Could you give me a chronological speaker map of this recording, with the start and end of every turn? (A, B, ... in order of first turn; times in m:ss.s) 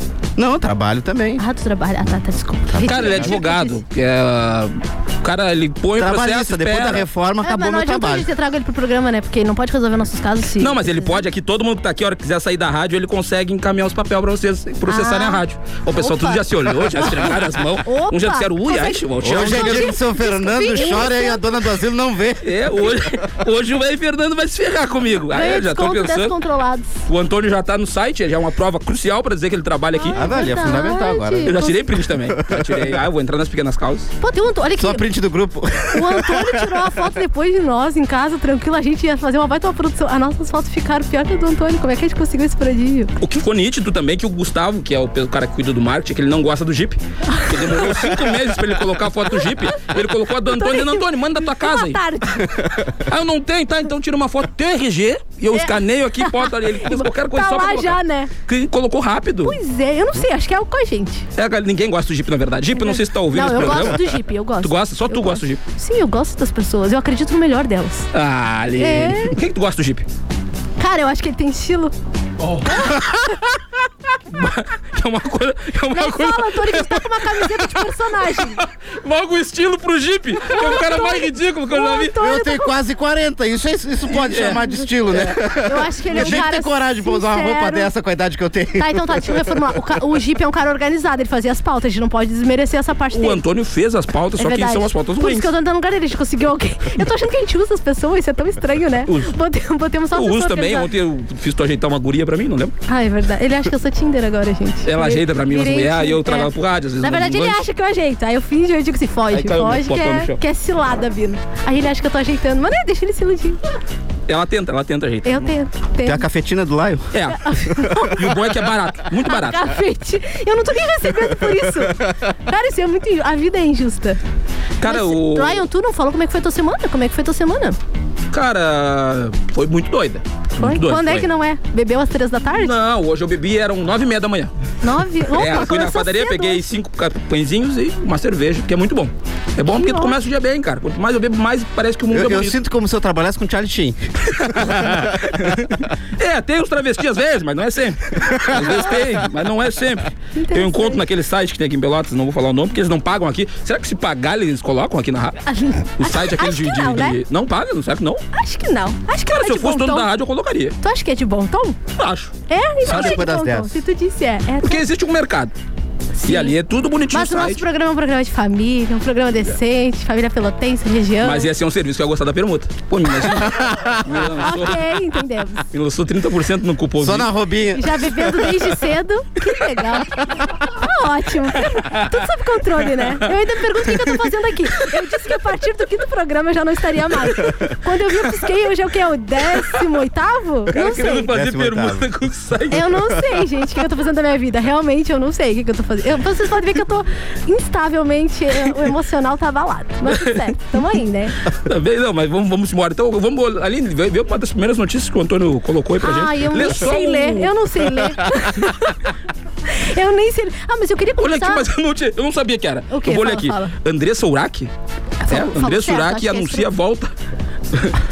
0:00.4-0:01.4 A
0:01.4-0:03.8 B
0:02.7-0:03.4 A
0:02.8-0:07.0 C
0:06.0-0:08.3 A
0:07.4-0:11.2 B
0:10.6-0:20.0 C
0:14.9-0:15.4 B
0:15.9-0:21.5 B
0:19.2-0:23.0 A
0:20.8-0:21.0 C
0:22.4-0:26.4 C
0:25.3-0:27.0 B
0:27.1-0:30.3 C
0:29.9-0:31.9 B
0:30.1-0:31.7 A
0:31.4-0:34.1 C
0:32.3-0:32.9 A
0:34.2-0:35.1 B
0:34.8-0:36.8 A
0:35.9-0:43.1 B
0:43.2-0:52.0 C
0:47.3-0:48.1 B
0:50.4-0:52.6 B
0:53.0-0:59.6 C
0:55.5-0:58.3 B
0:59.4-1:01.2 B
1:01.4-1:05.6 C
1:02.7-1:08.1 B
1:08.1-1:10.0 C
1:08.8-1:09.4 B
1:10.8-1:11.9 B
1:12.6-1:13.4 B
1:14.3-1:22.1 C
1:15.9-1:18.6 B
1:20.5-1:22.8 B
1:22.1-1:29.4 A
1:24.1-1:25.5 C
1:25.6-1:27.9 B
1:26.1-1:26.4 C
1:28.8-1:33.4 B
1:33.1-1:35.5 C
1:34.4-1:40.9 B
1:40.1-1:42.7 C
1:42.9-1:53.8 B
1:44.8-1:47.7 C
1:49.3-1:50.4 C
1:54.3-1:55.5 C
1:55.2-1:56.2 B
1:56.0-1:57.1 A
1:57.1-1:57.4 C
1:57.3-1:58.4 B
1:58.1-1:59.7 C
1:59.2-2:04.2 B
2:04.8-2:05.6 C
2:04.8-2:07.8 B
2:08.3-2:11.3 C
2:10.6-2:12.7 B
2:12.5-2:14.5 C
2:14.8-2:16.6 B
2:15.3-2:22.6 C
2:19.6-2:20.2 B
2:22.1-2:25.5 A
2:24.4-2:35.4 C
2:30.4-2:31.0 B
2:35.4-2:37.2 B
2:36.0-2:38.2 C
2:38.3-2:40.1 B
2:39.3-2:40.8 C
2:40.8-2:41.8 B
2:42.0-2:42.3 C
2:42.5-2:44.8 B
2:42.8-2:43.8 A
2:42.8-2:43.2 C
2:44.6-2:45.5 C
2:46.2-2:46.5 B
2:46.2-2:47.6 C
2:47.1-2:51.5 B
2:51.2-2:54.9 C
2:53.4-2:53.9 A
2:54.4-2:55.6 B
2:55.7-2:57.3 C
2:57.0-2:58.5 A
2:57.8-3:11.3 B
3:01.8-3:02.1 C
3:03.0-3:03.3 C
3:10.7-3:13.0 C
3:11.1-3:12.1 A
3:12.7-3:21.4 B
3:20.1-3:20.5 C
3:21.5-3:27.5 C
3:26.0-3:29.1 B
3:29.7-3:31.6 B
3:31.2-3:34.7 C
3:32.9-3:33.7 B
3:35.2-3:36.7 B
3:35.3-3:37.1 C